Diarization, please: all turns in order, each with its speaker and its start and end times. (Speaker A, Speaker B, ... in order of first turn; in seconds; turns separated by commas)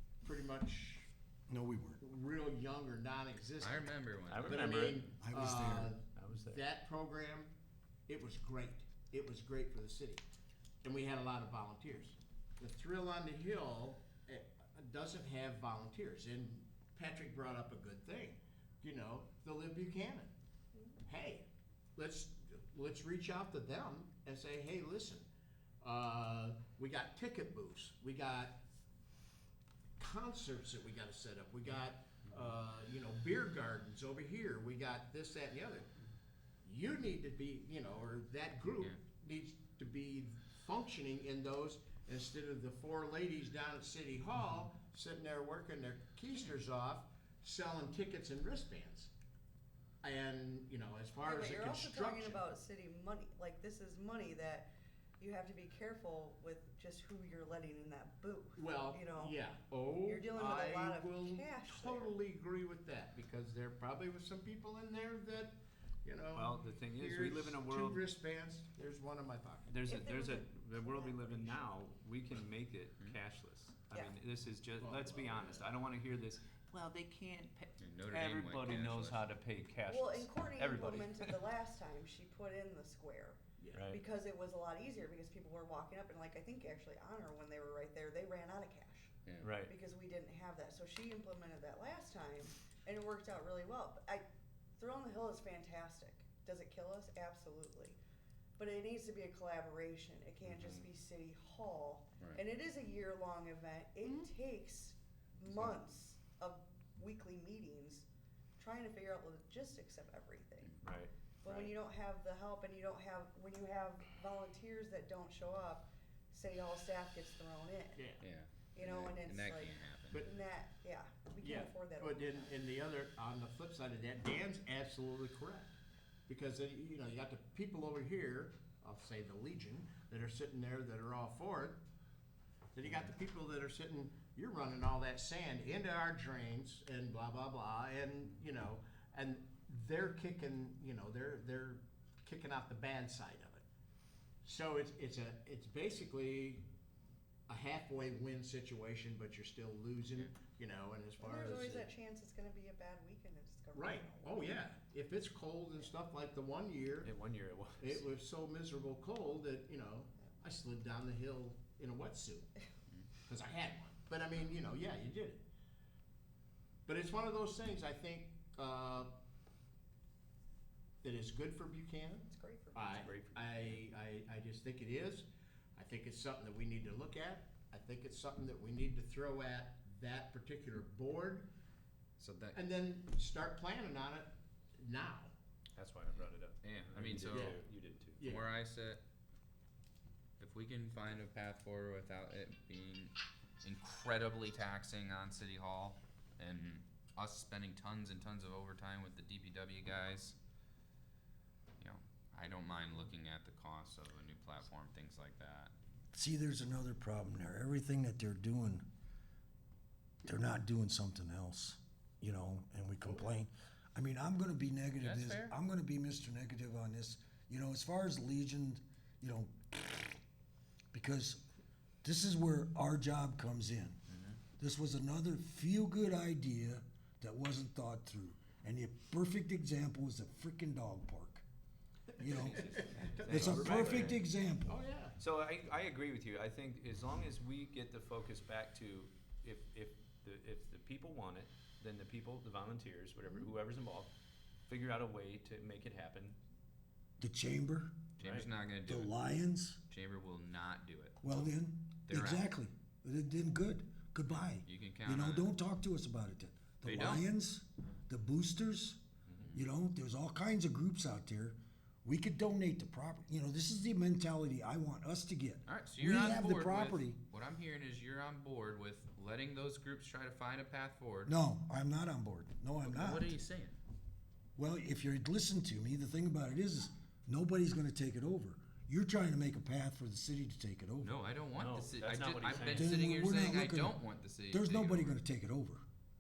Speaker A: 0.2-1.1, Speaker B: 1.5-2.0, Speaker A: 2.0-7.5, Speaker C: 3.6-4.8, Speaker D: 4.3-5.1, Speaker B: 5.2-5.9, Speaker D: 6.2-6.6, Speaker A: 8.1-10.2, Speaker A: 10.8-20.3, Speaker A: 21.1-25.3, Speaker A: 25.8-28.6, Speaker A: 30.0-35.9, Speaker A: 36.6-49.1, Speaker A: 50.0-52.4, Speaker E: 51.2-59.4, Speaker A: 58.6-69.7, Speaker E: 60.0-62.1, Speaker D: 66.3-68.0, Speaker D: 69.7-81.5, Speaker E: 69.9-71.7, Speaker A: 74.8-75.7, Speaker C: 77.8-79.2, Speaker E: 79.9-94.2, Speaker A: 83.6-83.8, Speaker D: 83.7-84.0, Speaker C: 89.3-89.5, Speaker D: 89.4-89.7, Speaker E: 94.8-98.0, Speaker E: 98.6-108.1, Speaker D: 100.5-100.9, Speaker E: 108.6-110.8, Speaker D: 110.8-111.1, Speaker E: 111.4-118.1, Speaker A: 111.5-111.7, Speaker A: 118.0-118.2, Speaker C: 118.2-120.2, Speaker E: 118.7-122.6, Speaker A: 121.4-125.8, Speaker A: 126.3-131.8, Speaker A: 132.8-143.6, Speaker A: 144.4-146.7, Speaker A: 147.5-151.9, Speaker E: 151.2-154.5, Speaker A: 153.7-157.1, Speaker D: 157.0-158.0, Speaker A: 157.8-162.5, Speaker A: 163.3-165.4, Speaker A: 166.9-169.1, Speaker A: 171.0-181.5, Speaker E: 172.3-173.1, Speaker D: 173.0-173.8, Speaker C: 182.2-182.6, Speaker A: 182.5-185.3, Speaker D: 185.8-188.2, Speaker C: 186.6-187.6, Speaker A: 187.3-187.6, Speaker A: 188.2-188.4, Speaker C: 188.2-189.0, Speaker C: 190.4-200.4, Speaker C: 201.8-205.7, Speaker B: 206.1-208.8, Speaker B: 210.2-220.1, Speaker A: 213.0-213.3, Speaker C: 215.0-215.6, Speaker B: 220.9-221.4, Speaker B: 222.0-224.0, Speaker C: 224.1-224.4, Speaker B: 224.6-231.4, Speaker B: 232.2-232.6, Speaker D: 232.2-234.3, Speaker A: 232.5-234.1, Speaker B: 233.3-234.7, Speaker A: 234.7-235.2, Speaker D: 235.2-244.1, Speaker D: 244.7-246.4, Speaker B: 247.2-248.0, Speaker D: 248.2-248.5, Speaker C: 248.2-249.2, Speaker B: 248.9-249.8, Speaker C: 249.9-251.4, Speaker B: 251.2-259.0, Speaker C: 252.1-252.5, Speaker C: 254.4-255.5, Speaker C: 256.8-257.3, Speaker B: 259.5-267.2, Speaker C: 265.7-271.3, Speaker B: 271.3-273.4, Speaker C: 272.8-273.8, Speaker B: 274.6-281.2, Speaker C: 281.0-285.2, Speaker D: 281.6-283.0, Speaker B: 282.6-285.8